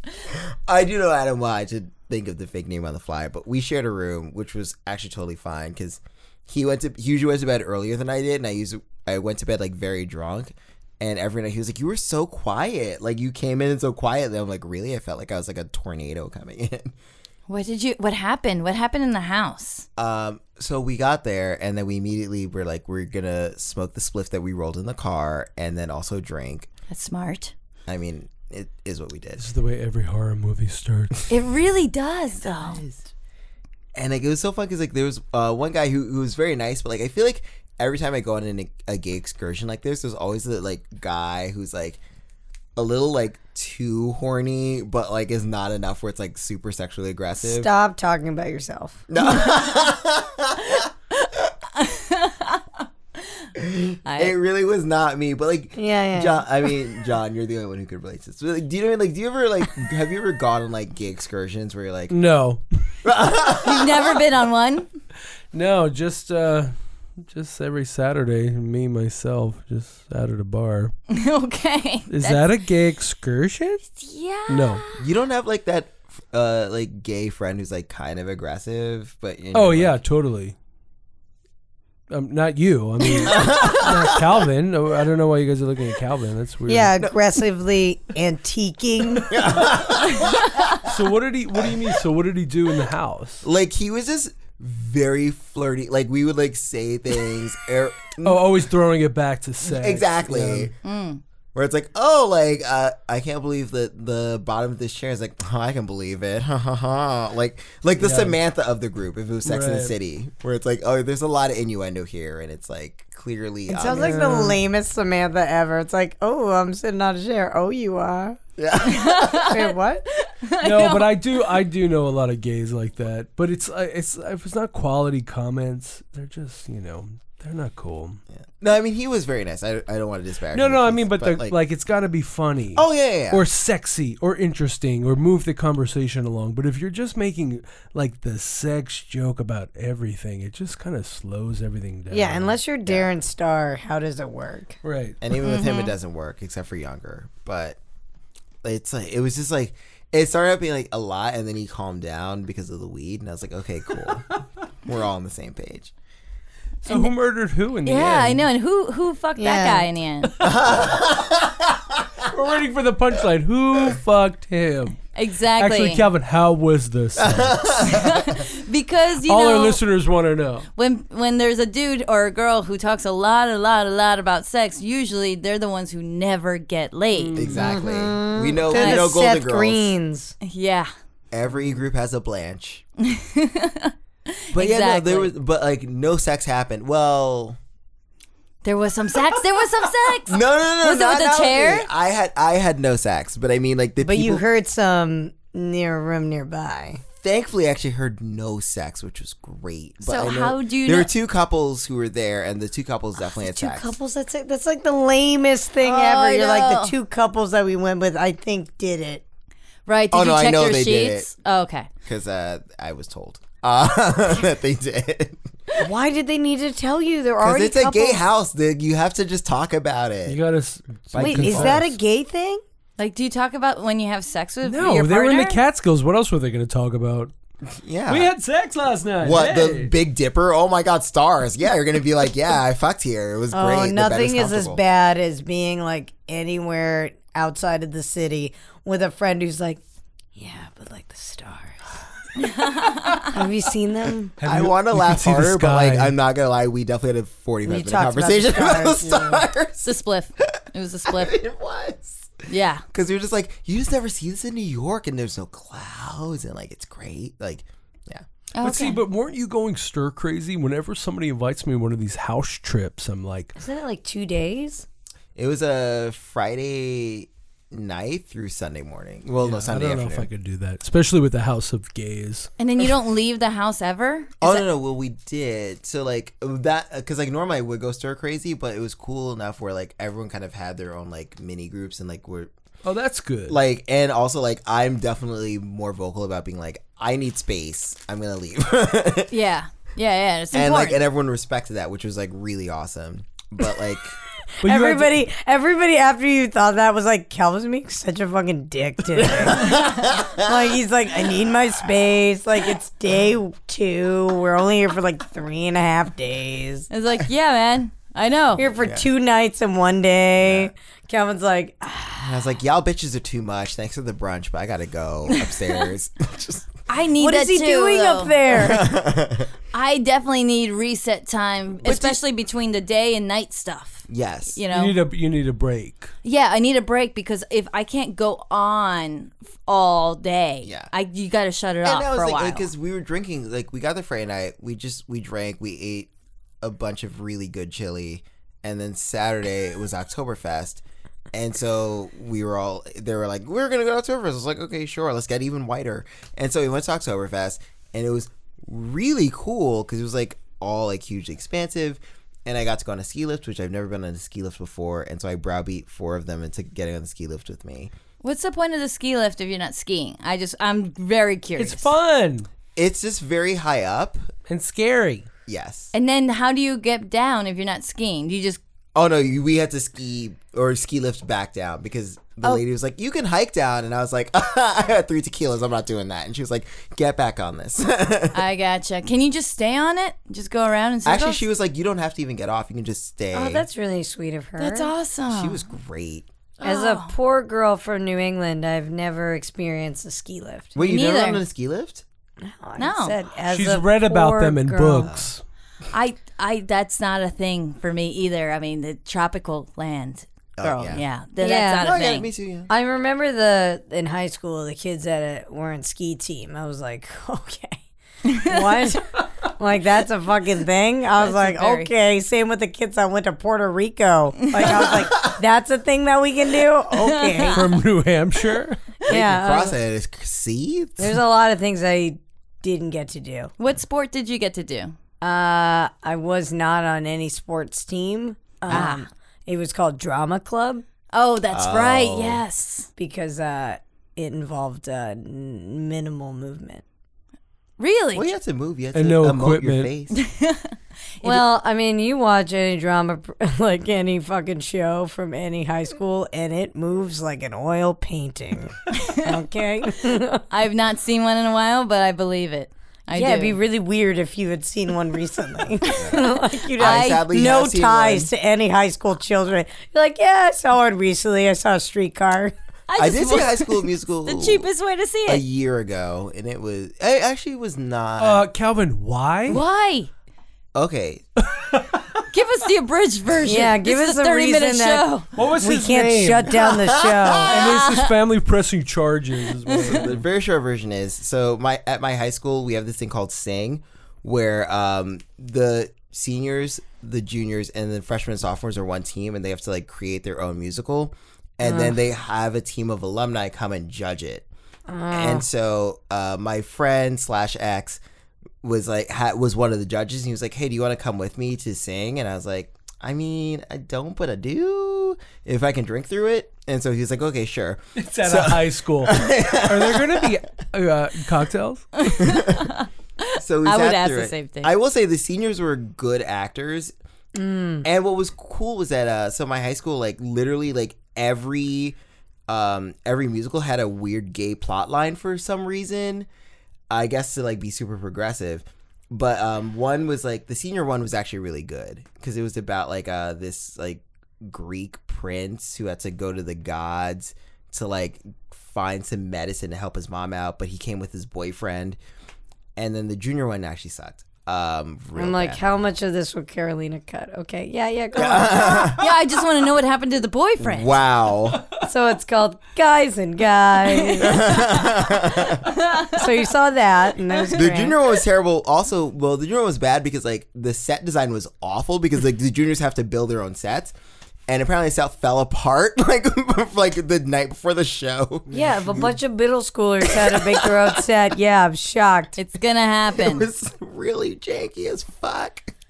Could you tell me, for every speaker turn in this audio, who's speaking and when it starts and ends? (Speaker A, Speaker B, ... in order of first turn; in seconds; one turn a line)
Speaker A: 0.3-16.9
Speaker B: 17.5-19.9
Speaker A: 20.0-26.7
Speaker B: 26.9-27.5
Speaker A: 27.9-29.4
Speaker C: 29.4-31.2
Speaker B: 31.3-32.8
Speaker A: 32.4-33.1
Speaker A: 33.9-42.0
Speaker A: 42.8-47.7
Speaker D: 47.4-49.0
Speaker A: 49.1-50.9
Speaker B: 51.7-52.6
Speaker A: 53.5-62.1
Speaker B: 54.0-54.3
Speaker D: 55.8-56.4
Speaker C: 62.1-62.6
Speaker A: 63.0-64.2
Speaker B: 63.6-64.9
Speaker C: 65.5-66.7
Speaker C: 67.2-70.9
Speaker B: 71.1-72.5
Speaker C: 72.1-73.8
Speaker B: 73.9-75.0
Speaker C: 74.5-74.8
Speaker A: 75.0-80.0
Speaker C: 79.5-80.5
Speaker C: 82.1-86.9
Speaker A: 83.2-84.2
Speaker D: 86.7-89.6
Speaker A: 89.2-90.9
Speaker C: 90.8-93.4
Speaker A: 93.4-98.5
Speaker C: 98.2-100.7
Speaker A: 99.7-100.7
Speaker B: 100.8-101.2
Speaker A: 101.5-114.3
Speaker C: 108.0-108.4
Speaker C: 109.4-109.9
Speaker D: 113.7-118.4
Speaker C: 113.9-114.6
Speaker A: 118.6-119.5
Speaker B: 118.8-121.2
Speaker D: 119.5-120.0
Speaker C: 120.6-128.2
Speaker A: 128.5-131.6
Speaker C: 130.5-142.6
Speaker A: 132.7-133.4
Speaker D: 142.1-144.8
Speaker C: 144.8-145.2
Speaker A: 145.2-147.8
Speaker B: 145.3-145.9
Speaker A: 148.6-154.3
Speaker A: 154.8-155.9
Speaker C: 156.8-158.4
Speaker B: 156.8-157.1
Speaker B: 157.8-160.3
Speaker D: 159.4-159.9
Speaker C: 160.2-160.6
Speaker A: 160.4-162.0
Speaker C: 162.2-165.0
Speaker B: 165.1-166.0
Speaker C: 165.6-167.6
Speaker A: 167.2-168.4
Speaker B: 167.8-169.8
Speaker C: 169.2-170.7
Speaker B: 170.8-177.4
Speaker C: 177.1-177.8
Speaker A: 177.3-179.9
Speaker D: 177.6-180.3
Speaker B: 178.7-179.1
Speaker B: 180.4-180.9
Speaker A: 181.3-182.8
Speaker B: 183.0-185.3
Speaker A: 184.5-187.6
Speaker B: 188.6-191.9
Speaker A: 190.2-194.4
Speaker D: 194.0-197.0
Speaker A: 197.2-204.0
Speaker B: 200.0-201.1
Speaker D: 203.2-209.2
Speaker B: 205.8-206.9
Speaker B: 209.8-211.9
Speaker A: 210.1-211.3
Speaker A: 212.0-215.4
Speaker D: 215.8-218.2
Speaker A: 217.4-220.4
Speaker C: 220.2-221.9
Speaker A: 221.1-221.9
Speaker D: 221.2-222.6
Speaker B: 223.0-225.6
Speaker C: 224.6-227.3
Speaker A: 227.8-228.3
Speaker C: 228.1-229.9
Speaker A: 229.2-234.8
Speaker D: 233.5-239.8
Speaker D: 240.3-241.9
Speaker B: 242.4-243.3
Speaker D: 243.2-244.3
Speaker C: 244.4-246.1
Speaker A: 244.4-249.9
Speaker D: 247.6-249.4
Speaker B: 249.8-251.4
Speaker A: 251.1-258.2
Speaker B: 252.5-252.8
Speaker B: 258.5-259.0
Speaker C: 258.6-263.5
Speaker D: 263.6-264.9
Speaker A: 265.4-270.3
Speaker C: 269.4-272.5
Speaker B: 272.6-274.6
Speaker A: 274.4-282.5
Speaker C: 282.8-283.6
Speaker A: 283.5-289.3
Speaker B: 289.3-291.0
Speaker A: 290.5-294.1
Speaker C: 294.6-295.2
Speaker D: 294.6-306.9
Speaker A: 299.2-300.7
Speaker B: 306.9-308.6
Speaker D: 308.6-312.4
Speaker A: 308.8-309.1
Speaker A: 310.4-310.7
Speaker A: 312.2-316.7
Speaker B: 316.9-318.3
Speaker D: 317.2-318.9
Speaker A: 318.5-319.5
Speaker B: 319.7-325.0
Speaker A: 321.8-322.2
Speaker A: 324.1-324.6
Speaker C: 324.7-326.1
Speaker B: 326.2-332.7
Speaker A: 330.6-330.9
Speaker A: 331.8-336.1
Speaker A: 336.6-340.8
Speaker A: 341.3-357.9
Speaker B: 358.2-361.9
Speaker C: 361.6-362.5
Speaker A: 362.8-364.3
Speaker C: 364.5-365.3
Speaker A: 365.5-365.9
Speaker B: 365.9-368.6
Speaker A: 368.9-378.4
Speaker B: 378.3-381.4
Speaker A: 381.0-383.6
Speaker D: 383.3-384.9
Speaker B: 384.6-385.6
Speaker A: 385.3-386.2
Speaker B: 386.6-387.1
Speaker D: 386.6-390.7
Speaker A: 390.7-392.0
Speaker B: 390.8-391.4
Speaker D: 392.4-395.1
Speaker B: 392.8-393.1
Speaker C: 393.5-395.4
Speaker A: 395.0-395.3
Speaker B: 395.9-402.3
Speaker A: 400.6-401.0
Speaker D: 401.4-401.9
Speaker A: 401.8-402.7
Speaker D: 402.7-417.6
Speaker B: 411.2-411.9
Speaker A: 414.7-415.3
Speaker B: 416.9-417.6
Speaker C: 417.5-418.8
Speaker D: 419.1-419.8
Speaker A: 419.1-421.2
Speaker D: 421.0-423.5
Speaker B: 423.6-424.9
Speaker D: 425.2-430.8
Speaker B: 428.7-429.1
Speaker B: 431.1-432.9
Speaker A: 431.5-432.4
Speaker D: 433.0-436.8
Speaker B: 437.8-438.3
Speaker A: 438.1-440.2
Speaker C: 438.9-439.9
Speaker B: 440.1-441.4
Speaker D: 441.2-450.4
Speaker B: 450.5-453.6
Speaker D: 453.1-462.5
Speaker B: 455.9-457.2
Speaker A: 455.9-458.3
Speaker B: 462.9-465.4
Speaker A: 463.0-464.7
Speaker A: 465.2-468.4
Speaker C: 468.2-469.6
Speaker B: 469.5-470.1
Speaker A: 470.7-471.2
Speaker C: 471.5-472.0
Speaker B: 472.3-475.2
Speaker D: 473.4-475.1
Speaker C: 475.4-476.6
Speaker D: 475.6-477.5
Speaker A: 476.5-477.7
Speaker B: 477.3-478.1
Speaker C: 477.5-480.2
Speaker A: 479.7-494.5
Speaker D: 491.6-491.9
Speaker D: 494.9-495.4
Speaker A: 495.1-498.0
Speaker A: 498.6-510.4
Speaker C: 507.9-511.9
Speaker B: 512.0-514.7
Speaker A: 512.1-512.7
Speaker A: 513.4-516.9
Speaker D: 517.3-517.9
Speaker A: 517.8-522.0
Speaker A: 522.5-526.3
Speaker A: 526.9-542.0
Speaker A: 542.8-545.6
Speaker D: 545.1-549.0
Speaker A: 548.1-549.1
Speaker B: 548.7-550.9
Speaker A: 550.6-551.6
Speaker D: 551.8-554.6
Speaker A: 554.2-555.7
Speaker B: 554.5-554.8
Speaker B: 555.7-556.2
Speaker D: 556.0-558.0
Speaker A: 557.5-563.9
Speaker A: 564.5-568.5
Speaker C: 568.5-569.1
Speaker D: 568.5-572.4
Speaker A: 570.0-570.9
Speaker B: 572.4-573.5
Speaker A: 573.1-575.7